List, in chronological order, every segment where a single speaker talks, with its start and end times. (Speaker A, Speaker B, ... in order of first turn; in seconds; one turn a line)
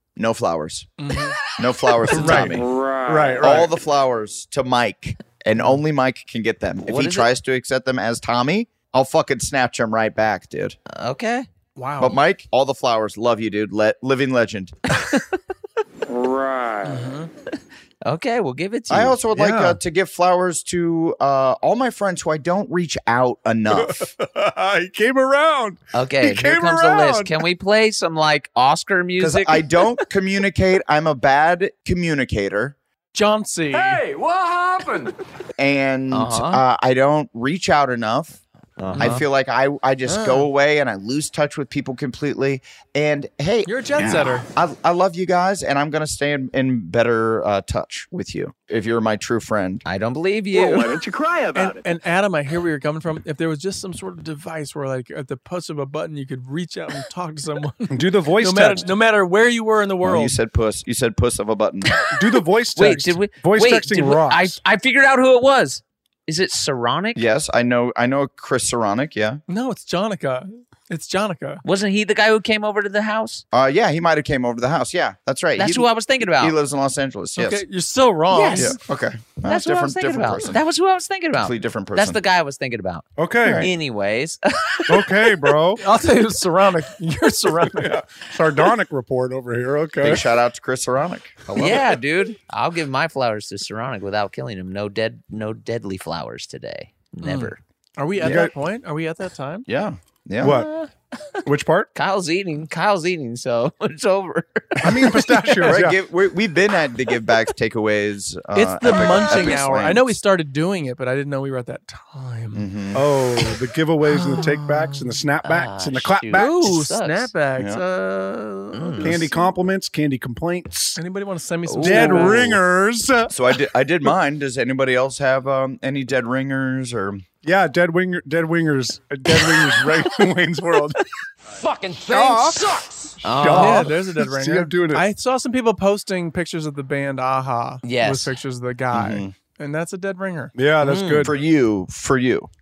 Speaker A: 0.2-0.9
Speaker B: 1.0-1.4
Speaker A: 1.5-10.8
Speaker B: 2.1-2.6
Speaker C: 3.0-3.7
Speaker D: 6.8-7.3
Speaker D: 10.9-11.5
Speaker B: 11.8-12.2
Speaker A: 12.0-14.8
Speaker B: 16.8-17.3
Speaker D: 17.5-19.2
Speaker A: 18.9-24.1
Speaker C: 19.3-19.8
Speaker C: 23.7-27.4
Speaker D: 25.9-29.7
Speaker A: 29.2-32.8
Speaker B: 33.1-34.0
Speaker E: 33.7-35.1
Speaker A: 35.6-43.7
Speaker D: 36.1-36.6
Speaker D: 38.8-39.2
Speaker B: 40.1-40.5
Speaker B: 43.6-44.5
Speaker A: 44.5-49.9
Speaker D: 49.9-50.9
Speaker E: 50.5-51.9
Speaker B: 51.5-60.4
Speaker C: 57.9-58.9
Speaker A: 60.0-62.1
Speaker C: 62.1-64.6
Speaker D: 62.8-67.2
Speaker A: 67.2-69.4
Speaker B: 69.5-71.6
Speaker D: 71.6-73.4
Speaker A: 73.5-77.6
Speaker D: 75.6-76.6
Speaker B: 77.4-78.8
Speaker D: 78.3-78.8
Speaker A: 78.5-80.6
Speaker D: 79.5-85.3
Speaker A: 81.4-82.2
Speaker C: 83.2-83.7
Speaker A: 83.4-83.7
Speaker C: 84.9-85.8
Speaker B: 85.8-88.0
Speaker C: 87.8-90.2
Speaker A: 90.0-92.0
Speaker D: 91.6-97.6
Speaker B: 97.2-99.7
Speaker A: 98.2-98.5
Speaker C: 98.2-98.5
Speaker A: 99.7-100.6
Speaker C: 100.4-100.7
Speaker C: 101.5-101.9
Speaker D: 102.0-105.8
Speaker C: 104.8-106.0
Speaker A: 105.6-110.2
Speaker B: 108.5-112.7
Speaker A: 112.5-113.0
Speaker C: 112.9-116.8
Speaker B: 114.0-115.2
Speaker D: 115.4-117.3
Speaker B: 116.3-119.6
Speaker A: 117.6-117.8
Speaker D: 118.7-119.3
Speaker C: 119.0-121.0
Speaker B: 121.0-122.6
Speaker D: 121.7-122.6
Speaker C: 121.8-123.3
Speaker A: 123.3-127.2
Speaker C: 127.4-131.0
Speaker E: 131.5-133.2
Speaker C: 132.1-132.6
Speaker C: 133.2-135.1
Speaker D: 133.2-133.9
Speaker B: 133.5-140.6
Speaker D: 137.8-138.3
Speaker A: 138.9-139.3
Speaker C: 140.6-141.3
Speaker D: 140.8-141.3
Speaker A: 141.2-142.5